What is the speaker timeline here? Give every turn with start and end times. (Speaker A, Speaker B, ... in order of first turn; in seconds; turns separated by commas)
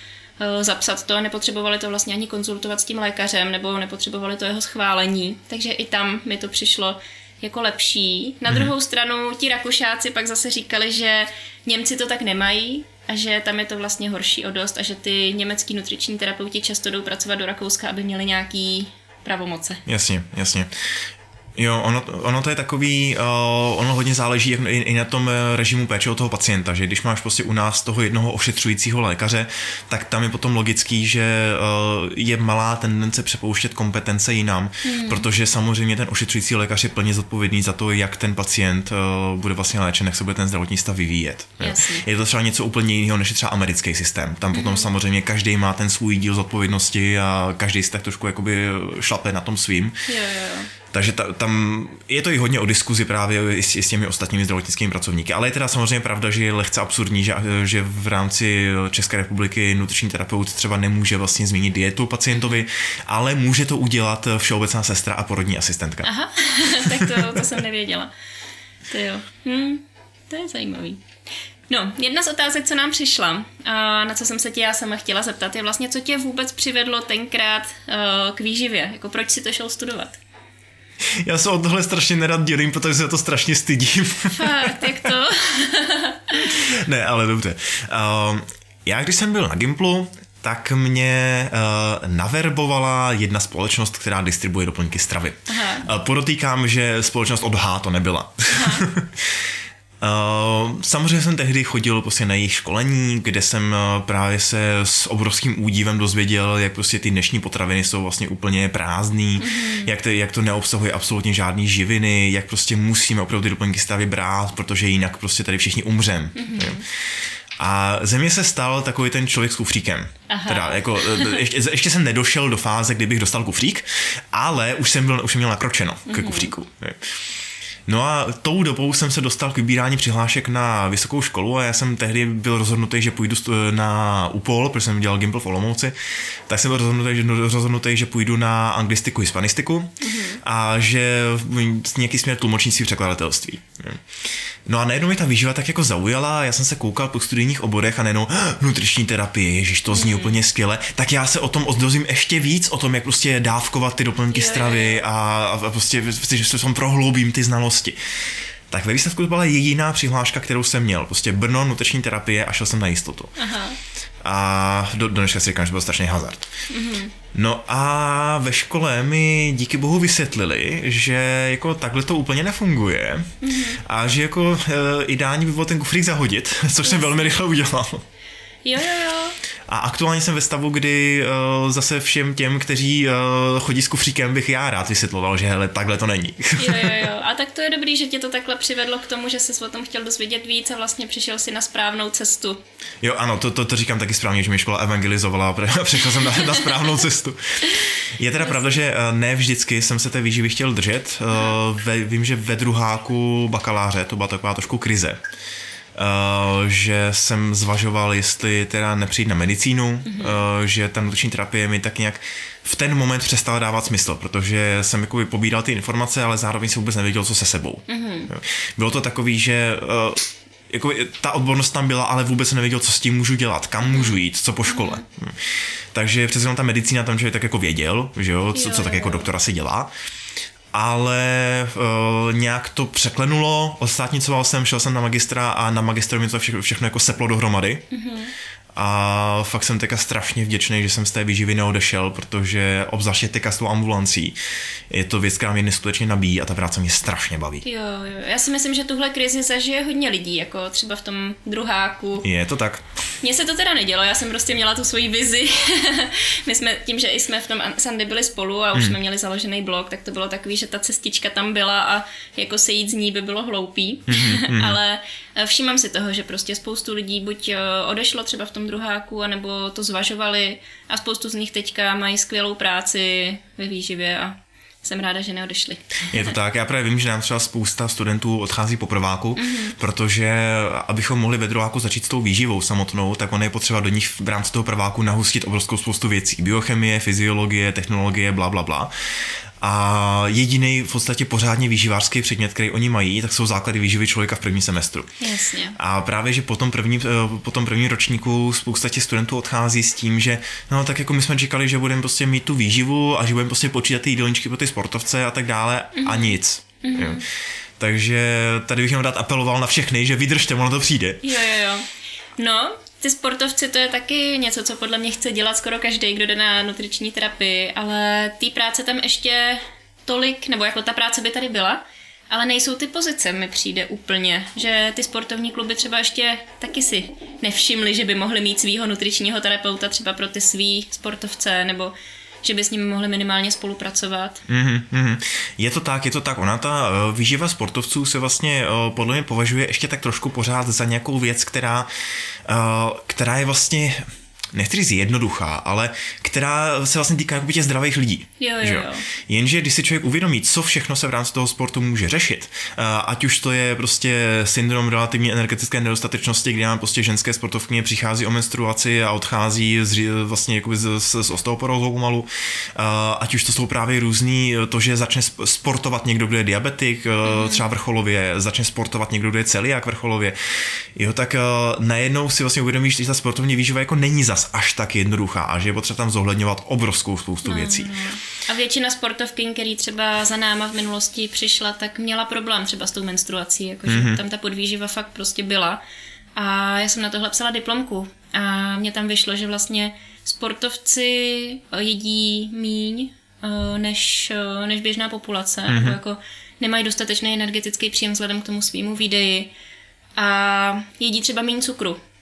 Speaker A: 0.4-19.8, Speaker B: 19.9-20.9, Speaker B: 21.6-50.0, Speaker A: 34.8-35.2, Speaker A: 41.6-42.0, Speaker A: 44.5-44.9, Speaker A: 50.0-50.7, Speaker B: 50.9-66.1, Speaker A: 62.3-62.6, Speaker A: 66.0-68.1, Speaker B: 66.7-67.5, Speaker A: 68.9-71.0, Speaker A: 71.7-80.2, Speaker B: 81.0-84.9, Speaker A: 84.3-86.5, Speaker B: 86.4-99.3, Speaker A: 95.5-95.9, Speaker A: 98.5-98.9, Speaker B: 100.0-116.8, Speaker A: 109.4-109.9, Speaker A: 116.3-116.8, Speaker B: 117.6-127.2, Speaker A: 120.3-121.5, Speaker A: 126.1-126.5, Speaker B: 127.9-135.9, Speaker B: 136.5-144.0, Speaker A: 140.0-140.4, Speaker B: 144.7-157.9, Speaker A: 149.9-150.4, Speaker A: 154.3-155.0, Speaker B: 158.7-163.3, Speaker A: 163.4-163.8, Speaker B: 164.2-166.4, Speaker A: 166.7-167.1, Speaker B: 167.3-178.0, Speaker A: 173.4-173.8, Speaker A: 176.8-177.3, Speaker A: 178.6-179.4, Speaker B: 179.7-187.1, Speaker A: 186.6-192.6, Speaker B: 193.0-205.2, Speaker B: 205.9-229.9, Speaker A: 210.1-210.4, Speaker A: 217.9-218.3, Speaker A: 223.8-225.0, Speaker A: 228.5-229.3, Speaker B: 230.7-237.8, Speaker A: 237.9-238.3, Speaker B: 238.7-244.3, Speaker B: 244.9-247.6, Speaker A: 247.6-252.3, Speaker B: 252.2-252.8, Speaker A: 253.2-276.3, Speaker B: 264.1-264.8, Speaker B: 276.1-289.1, Speaker A: 279.4-279.7, Speaker B: 289.6-295.2, Speaker A: 295.2-295.8, Speaker B: 295.8-307.2, Speaker A: 305.9-307.2, Speaker B: 307.8-311.2, Speaker A: 311.2-311.9, Speaker A: 312.4-334.4, Speaker B: 334.5-341.9, Speaker B: 342.4-377.9, Speaker A: 348.4-349.1, Speaker A: 367.2-367.6, Speaker A: 377.4-385.8, Speaker B: 383.9-384.2, Speaker A: 386.4-399.5, Speaker B: 395.7-396.0, Speaker A: 400.2-402.0